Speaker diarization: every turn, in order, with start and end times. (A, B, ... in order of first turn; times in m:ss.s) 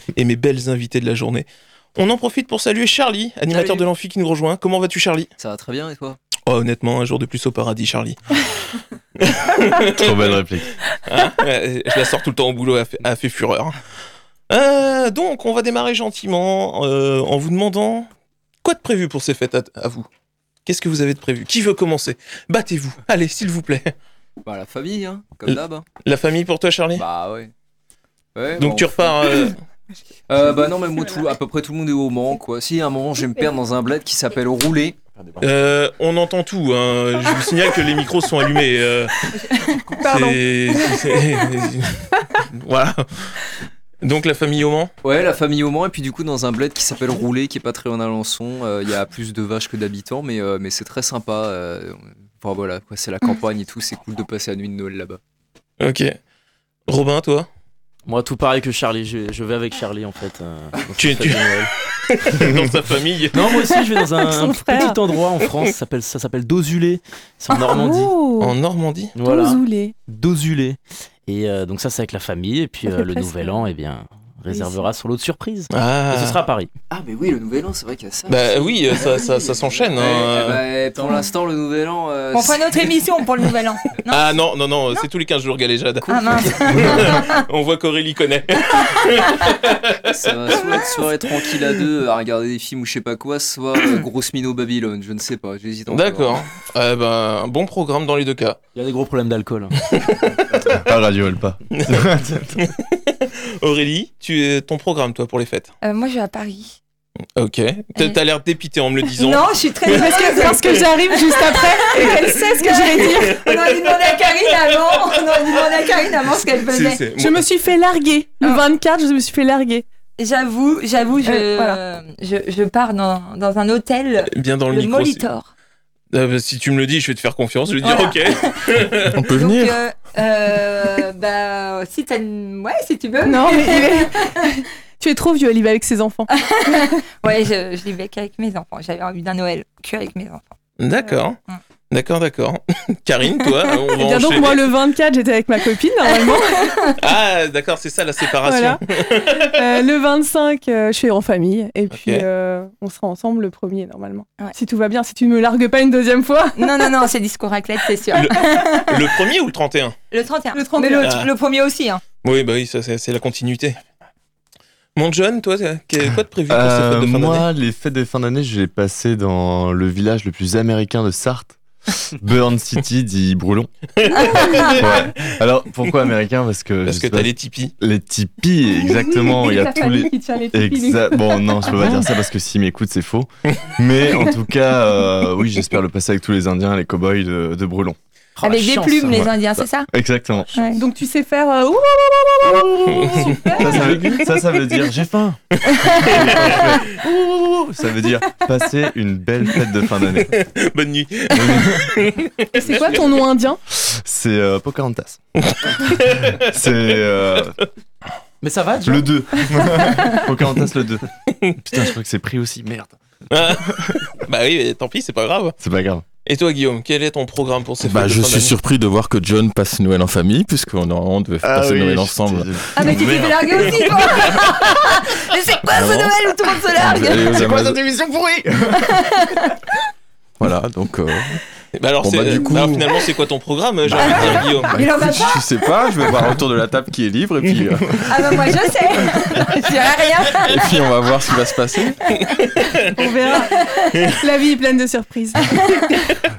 0:00.1-0:05.3 A
0:03.5-0:03.8 B
0:05.4-0:06.2 B
0:06.4-0:08.2 A
0:09.2-0:10.4 A
0:09.8-0:10.7 C
0:11.1-0:13.7 A
0:14.5-0:18.1 A
0:18.6-0:20.1 A
0:20.6-0:23.9 A
0:24.4-0:25.8 B
0:25.4-0:27.0 A
0:27.0-0:27.5 B
0:28.3-0:29.4 B
0:28.6-0:29.6 A
0:30.3-0:35.0 B
0:35.4-0:39.3 A
0:39.6-0:41.4 D
0:39.9-0:43.4 A
0:44.0-0:44.9 A
0:45.0-0:55.2 B
0:55.8-0:56.2 A
0:56.9-0:57.5 A
0:58.1-1:01.7 E
1:01.0-1:03.7 A
1:03.3-1:08.1 E
1:04.2-1:05.0 D
1:07.5-1:08.6 D
1:08.4-1:09.1 A
1:09.1-1:16.7 E
1:09.2-1:09.9 D
1:12.9-1:13.6 D
1:14.5-1:14.9 D
1:15.7-1:16.4 A
1:16.9-1:23.0 B
1:18.3-1:20.6 A
1:22.3-1:24.3 F
1:24.1-1:30.7 A
1:26.0-1:27.4 F
1:26.1-1:27.1 B
1:30.1-1:36.4 B
1:35.9-1:38.6 A
1:38.7-1:39.8 E
1:39.9-1:40.4 A
1:40.7-1:42.5 C
1:41.8-1:42.0 A
1:42.6-1:45.7 A
1:45.8-1:46.8 F
1:47.4-1:50.0 A
1:49.0-1:57.0 F
1:49.9-1:53.4 D
1:53.0-1:55.6 A
1:56.7-1:57.4 A
1:57.1-1:59.8 D
2:00.2-2:05.5 F
2:01.2-2:01.8 D
2:04.3-2:05.2 A
2:06.1-2:09.1 A
2:07.8-2:08.7 F
2:09.1-2:09.8 G
2:09.3-2:14.5 F
2:13.2-2:17.0 D
2:16.3-2:20.5 F
2:20.8-2:21.4 A
2:21.9-2:24.7 A
2:23.9-2:26.8 D
2:26.1-2:27.0 F
2:27.0-2:29.5 A
2:28.4-2:36.9 D
2:31.9-2:32.3 A
2:36.6-2:39.1 F
2:38.1-2:39.9 A
2:40.1-2:42.0 F
2:40.5-2:41.1 D
2:41.0-2:41.3 A
2:42.2-2:43.8 A
2:45.0-2:47.5 A
2:46.5-2:51.6 C
2:52.2-2:53.7 C
2:54.0-2:55.0 A
2:54.2-2:54.6 F
2:54.3-2:54.9 D
2:54.6-3:08.0 C
2:56.8-2:57.7 A
2:58.7-3:01.8 D
3:08.4-3:09.3 E
3:08.4-3:09.9 F
3:09.9-3:10.5 C
3:10.5-3:10.7 E
3:10.5-3:10.8 F
3:10.8-3:14.2 D
3:12.9-3:13.9 A
3:13.4-3:15.4 C
3:15.8-3:16.6 A
3:15.9-3:20.4 C
3:20.1-3:23.2 A
3:21.3-3:21.9 C
3:22.6-3:23.6 D
3:24.0-3:25.2 C
3:25.5-3:27.5 A
3:26.3-3:27.6 C
3:28.4-3:29.1 E
3:28.8-3:31.0 C
3:31.6-3:34.0 C
3:33.3-3:35.6 A
3:35.6-3:36.0 C
3:36.2-3:38.5 A
3:37.8-3:43.8 G
3:41.4-3:43.3 C
3:42.7-3:47.4 F
3:45.7-3:46.2 G
3:46.7-3:47.8 G
3:46.8-3:48.9 C
3:48.8-3:49.5 F
3:50.4-3:51.4 G
3:51.8-3:54.8 A
3:52.0-3:53.0 G
3:53.9-3:55.4 F
3:53.9-3:58.6 G
3:58.1-4:00.7 F
4:00.4-4:02.0 G
4:02.5-4:02.9 A
4:02.9-4:06.2 D
4:03.5-4:03.9 F
4:05.4-4:05.8 F